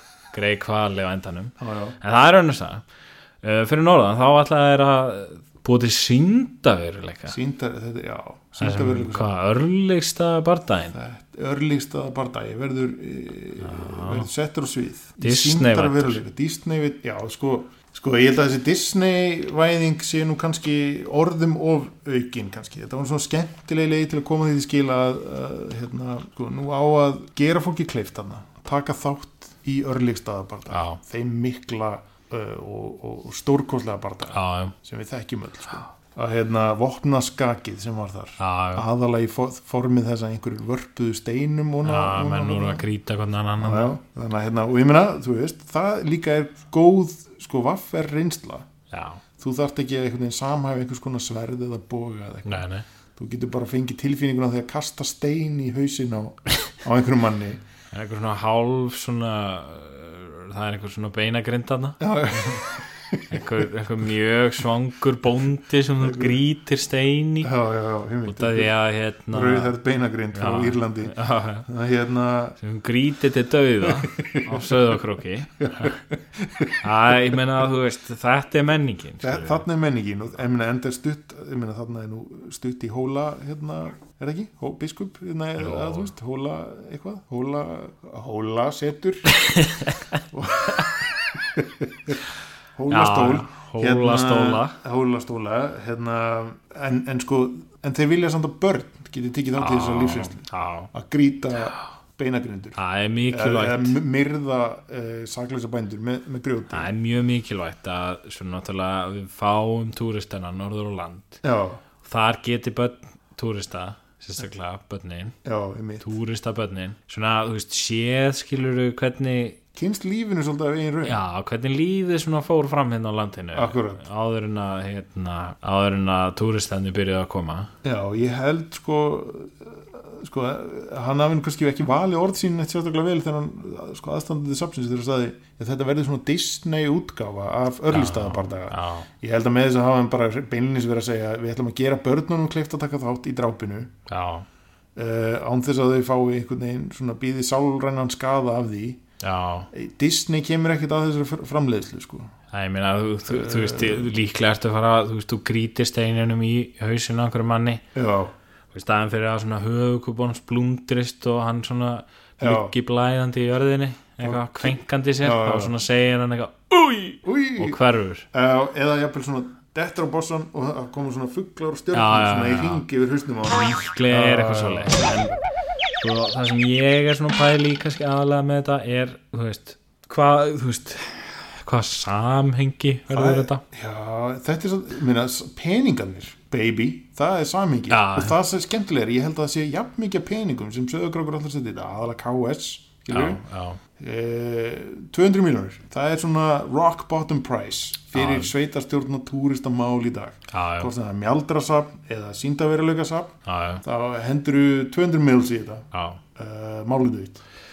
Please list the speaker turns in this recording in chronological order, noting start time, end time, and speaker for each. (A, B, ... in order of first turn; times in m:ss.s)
0:00.3-0:02.8 A
0:01.6-0:02.0 B
0:03.4-0:07.4 A
0:07.3-0:09.3 B
0:08.6-0:11.0 A
0:10.9-0:42.8 B
0:13.6-0:14.3 A
0:15.2-0:16.2 A
0:30.7-0:31.0 A
0:34.3-0:34.7 A
0:38.4-0:38.8 A
0:41.8-0:43.9 A
0:43.6-0:48.7 B
0:48.9-0:49.2 A
0:49.4-0:57.6 B
0:52.4-0:52.8 A
0:57.9-1:02.7 A
1:02.0-1:03.6 B
1:03.3-1:07.5 A
1:06.0-1:06.4 B
1:07.4-1:08.7 B
1:08.2-1:09.7 A
1:09.3-1:12.6 B
1:10.3-1:11.7 A
1:12.6-1:16.0 A
1:13.8-1:14.9 B
1:15.6-1:17.4 B
1:16.8-1:19.6 A
1:19.2-1:29.5 B
1:25.6-1:26.1 A
1:29.4-1:30.2 A
1:30.3-1:32.2 B
1:32.7-1:42.8 B
1:32.9-1:34.8 A
1:39.6-1:40.9 A
1:42.8-1:44.0 A
1:43.3-1:46.9 B
1:46.7-1:51.4 A
1:51.4-1:51.8 B
1:52.0-1:55.4 A
1:55.4-1:56.1 B
1:56.0-1:59.6 A
1:59.7-2:01.2 B
2:01.0-2:07.7 A
2:03.5-2:04.0 B
2:07.8-2:23.9 B
2:17.9-2:19.1 A
2:24.1-2:24.4 A
2:25.0-2:29.0 B
2:29.2-2:29.7 A
2:29.7-2:32.3 B
2:32.5-2:37.8 A
2:33.3-2:34.1 B
2:37.9-2:38.3 B
2:38.7-2:48.3 A
2:42.4-2:42.7 B
2:44.2-2:45.7 B
2:47.2-2:47.8 B
2:48.3-2:55.4 B
2:51.9-2:52.8 A
2:53.6-2:55.4 A
2:56.0-3:03.6 A
3:03.1-3:13.4 B
3:07.9-3:08.4 A
3:13.1-3:13.8 A
3:14.0-3:27.4 B
3:18.1-3:18.5 A
3:20.5-3:20.9 A
3:23.4-3:23.8 A
3:25.9-3:26.2 A